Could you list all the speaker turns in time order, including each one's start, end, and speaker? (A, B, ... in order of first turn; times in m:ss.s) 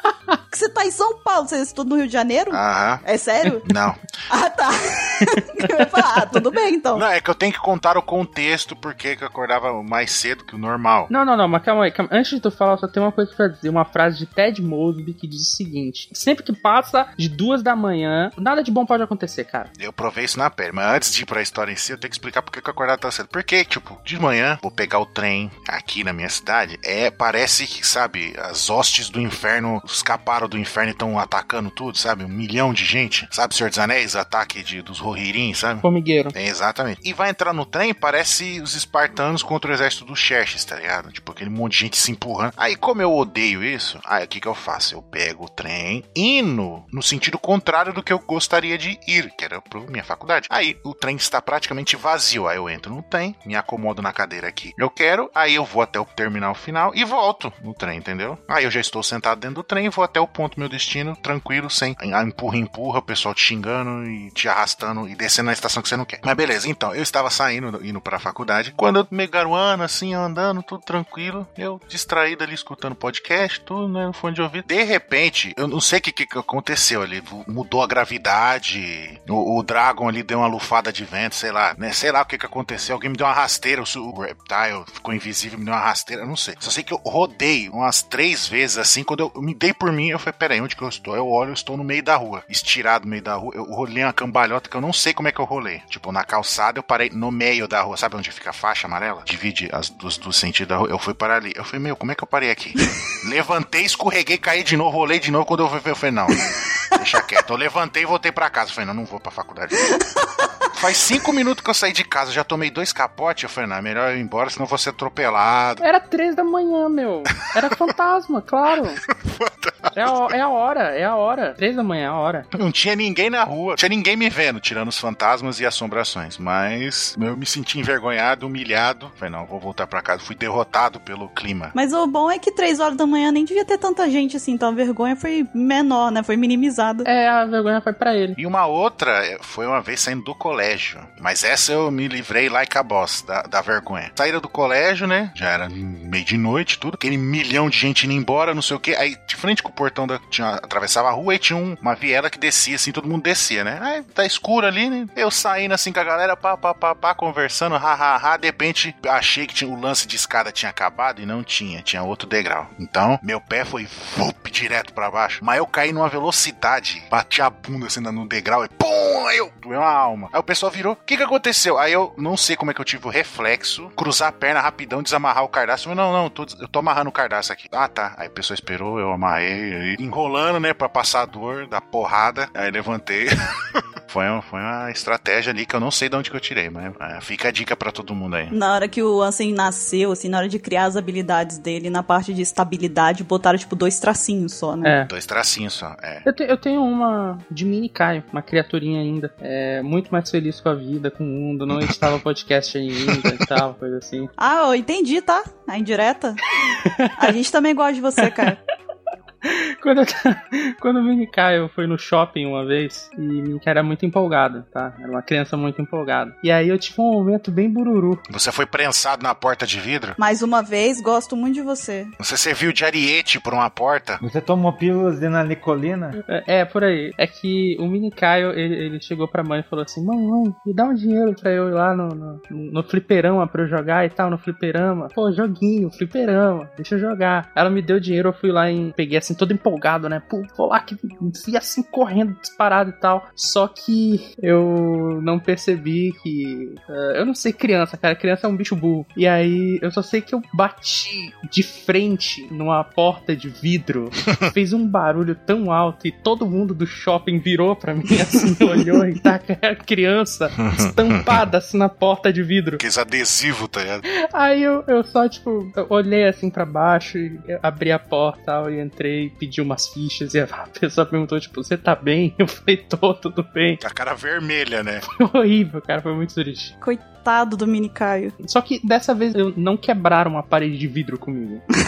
0:00.4-0:03.7 A
0:02.5-0:03.0 B
0:03.6-0:04.0 B
0:04.3-0:07.0 A
0:06.9-0:11.1 B
0:11.1-0:19.7 C
0:19.8-1:50.0 B
0:35.8-0:36.3 C
1:49.9-1:50.5 A
1:50.7-1:55.8 B
1:55.8-1:59.0 C
1:59.1-2:00.3 B
1:59.9-2:02.5 C
2:02.5-2:11.7 B
2:11.7-2:17.1 A
2:17.0-2:18.4 C
2:18.4-3:03.3 B
3:04.1-3:08.5 B
3:08.5-3:14.9 A
3:14.8-3:15.1 C
3:15.1-3:16.2 B
3:16.2-3:24.3 C
3:24.4-3:26.4 A
3:26.6-3:27.2 C
3:27.2-3:28.6 A
3:28.2-3:28.6 C
3:29.4-3:38.2 C
3:38.3-3:40.2 B
3:40.2-3:42.1 A
3:42.2-3:44.2 B
3:44.2-3:46.2 D
3:46.3-4:22.8 C
4:20.6-4:21.3 B
4:22.8-4:24.0 B
4:24.3-4:33.8 C
4:33.8-4:35.0 B
4:35.1-4:36.7 C
4:36.8-4:38.3 A
4:38.4-4:41.6 C